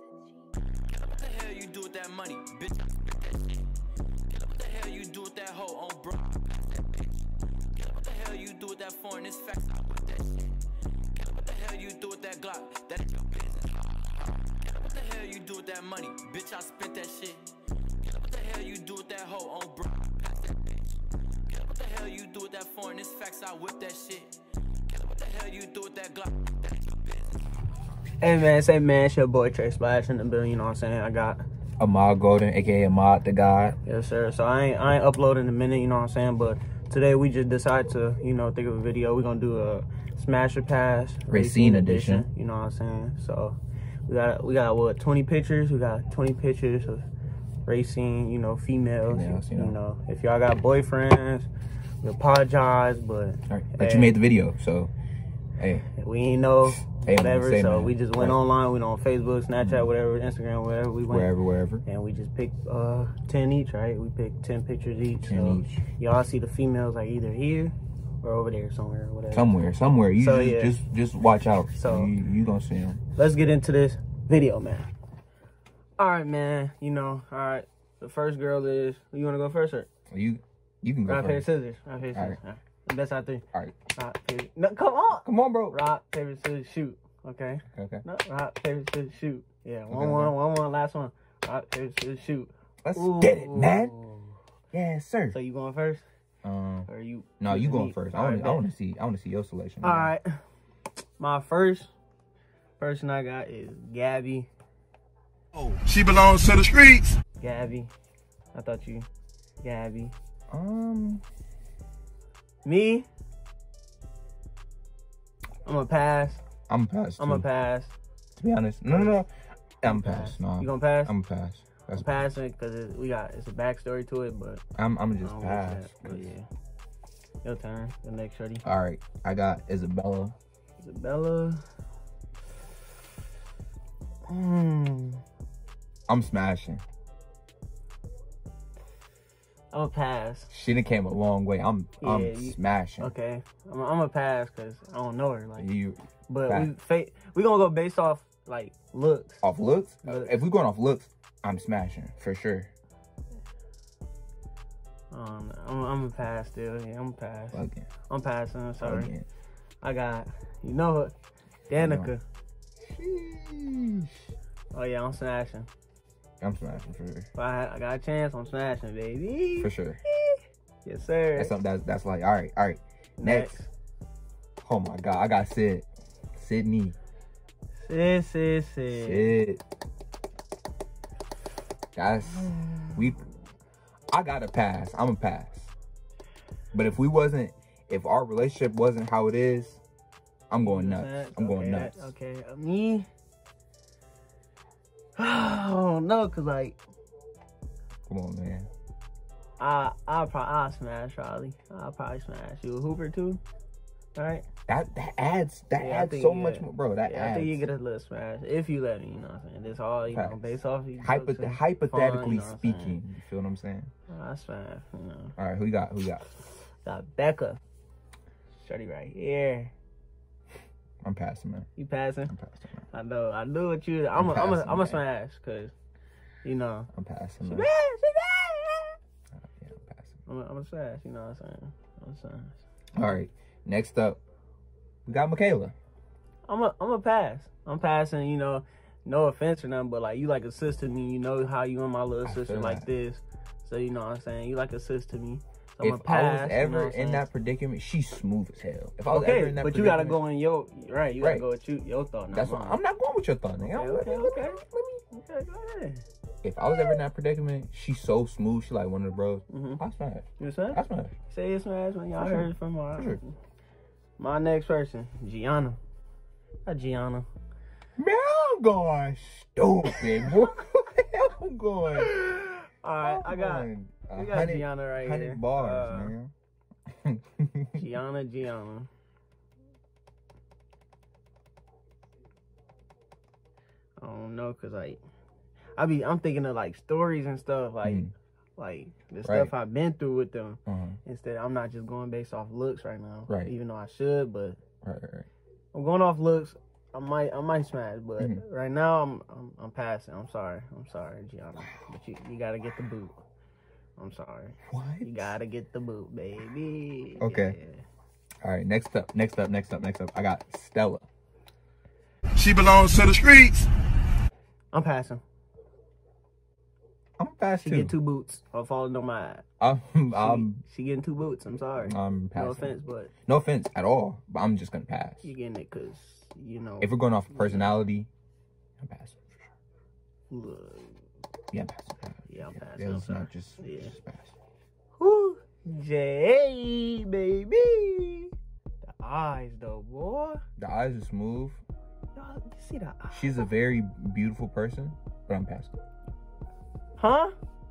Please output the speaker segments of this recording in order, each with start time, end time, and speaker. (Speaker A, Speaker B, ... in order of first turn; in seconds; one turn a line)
Speaker A: 1.0-3.7
Speaker A: 4.3-10.6
Speaker A: 11.1-17.5
Speaker A: 18.0-24.4
Speaker A: 24.9-27.5
Speaker B: 28.2-31.4
Speaker C: 31.8-33.8
Speaker B: 33.8-47.0
Speaker C: 41.3-42.3
Speaker B: 47.6-51.5
Speaker C: 49.0-49.8
Speaker B: 52.0-54.1
Speaker C: 53.5-54.9
Speaker C: 55.6-55.9
Speaker B: 55.9-61.3
Speaker C: 56.8-58.4
Speaker C: 59.6-59.9
Speaker C: 61.1-61.8
Speaker B: 61.8-69.5
Speaker C: 65.2-65.8
Speaker C: 69.3-73.0
Speaker B: 70.2-70.8
Speaker B: 71.7-72.1
Speaker B: 73.1-74.9
Speaker B: 76.0-79.9
Speaker C: 80.1-81.5
Speaker B: 81.1-94.4
Speaker C: 82.0-82.4
Speaker C: 85.2-85.8
Speaker C: 87.7-88.0
Speaker C: 89.9-90.3
Speaker C: 92.8-93.9
Speaker C: 94.7-95.4
Speaker B: 95.3-96.0
Speaker C: 96.4-96.9
Speaker B: 96.9-98.7
Speaker C: 97.4-100.1
Speaker B: 99.8-100.4
Speaker B: 101.2-101.9
Speaker B: 102.8-104.5
Speaker D: 105.7-107.2
Speaker B: 107.4-107.9
Speaker B: 108.5-109.1
Speaker B: 109.6-110.1
Speaker C: 110.5-111.2
Speaker B: 112.6-113.1
Speaker B: 115.6-116.4
Speaker C: 116.7-117.5
Speaker B: 117.2-117.9
Speaker C: 118.3-119.3
Speaker B: 118.9-119.2
Speaker C: 119.8-122.3
Speaker B: 119.8-121.1
Speaker B: 121.9-124.6
Speaker C: 124.8-126.3
Speaker B: 125.2-126.5
Speaker B: 127.4-128.6
Speaker C: 128.6-130.3
Speaker B: 130.8-131.6
Speaker B: 134.3-135.2
Speaker C: 136.1-136.8
Speaker B: 139.7-140.5
Speaker C: 140.5-143.1
Speaker B: 142.0-145.7
Speaker C: 145.6-146.7
Speaker B: 146.3-149.4
Speaker C: 149.4-152.7
Speaker B: 150.0-150.4
Speaker B: 155.1-159.1
Speaker C: 157.5-157.9
Speaker C: 158.8-159.3
Speaker B: 159.8-161.1
Speaker B: 161.7-162.2
Speaker C: 161.7-162.1
Speaker C: 162.8-164.2
Speaker B: 164.7-165.7
Speaker C: 166.4-167.3
Speaker B: 167.3-171.5
Speaker C: 169.6-170.0
Speaker C: 171.3-173.6
Speaker B: 173.2-173.7
Speaker C: 174.6-176.9
Speaker B: 177.8-179.3
Speaker C: 178.9-179.6
Speaker C: 181.9-183.2
Speaker B: 182.3-183.0
Speaker C: 184.1-185.7
Speaker C: 186.7-189.8
Speaker C: 190.5-192.1
Speaker B: 190.6-193.1
Speaker B: 195.2-196.8
Speaker C: 198.1-198.7
Speaker B: 199.6-203.4
Speaker B: 204.1-204.4
Speaker C: 204.7-207.7
Speaker B: 205.8-213.0
Speaker C: 210.1-213.9
Speaker B: 214.1-215.3
Speaker C: 215.4-216.2
Speaker B: 216.4-217.6
Speaker B: 218.6-219.7
Speaker C: 221.0-221.7
Speaker B: 221.8-222.3
Speaker C: 222.3-222.8
Speaker B: 222.9-225.7
Speaker C: 224.1-225.0
Speaker B: 226.4-226.9
Speaker C: 226.9-227.7
Speaker B: 227.4-228.9
Speaker C: 229.4-230.2
Speaker B: 230.3-232.6
Speaker C: 232.9-234.2
Speaker C: 235.1-235.7
Speaker B: 236.4-247.3
Speaker C: 242.2-242.9
Speaker C: 245.8-250.2
Speaker B: 249.1-252.8
Speaker C: 251.2-251.4
Speaker C: 252.3-255.0
Speaker B: 253.6-256.0
Speaker C: 256.4-261.1
Speaker B: 256.6-256.9
Speaker B: 259.5-259.8
Speaker B: 260.4-263.3
Speaker C: 262.2-263.2
Speaker B: 264.2-265.8
Speaker B: 266.6-267.3
Speaker C: 268.0-272.1
Speaker B: 271.9-276.1
Speaker C: 273.0-276.3
Speaker C: 276.9-277.8
Speaker B: 277.7-278.9
Speaker B: 284.0-285.0
Speaker B: 285.8-288.0
Speaker C: 287.8-288.1
Speaker B: 288.6-294.6
Speaker C: 289.2-289.5
Speaker C: 290.6-291.0
Speaker C: 293.3-293.5
Speaker C: 294.8-295.3
Speaker B: 295.7-303.2
Speaker C: 298.2-298.4
Speaker B: 304.0-307.8
Speaker C: 304.7-305.2
Speaker C: 307.2-307.6
Speaker C: 308.4-311.1
Speaker D: 312.3-313.7
Speaker B: 314.7-315.2
Speaker C: 317.2-318.0
Speaker B: 317.6-319.4
Speaker C: 319.6-320.6
Speaker B: 320.1-323.1
Speaker C: 321.8-322.7
Speaker C: 323.2-325.3
Speaker B: 325.2-327.8
Speaker C: 326.8-328.1
Speaker C: 328.8-329.5
Speaker B: 330.3-331.0
Speaker C: 331.5-334.3
Speaker B: 332.3-333.9
Speaker B: 335.0-338.3
Speaker B: 338.8-340.4
Speaker C: 340.6-341.6
Speaker B: 342.1-343.4
Speaker C: 343.1-345.8
Speaker B: 347.0-347.3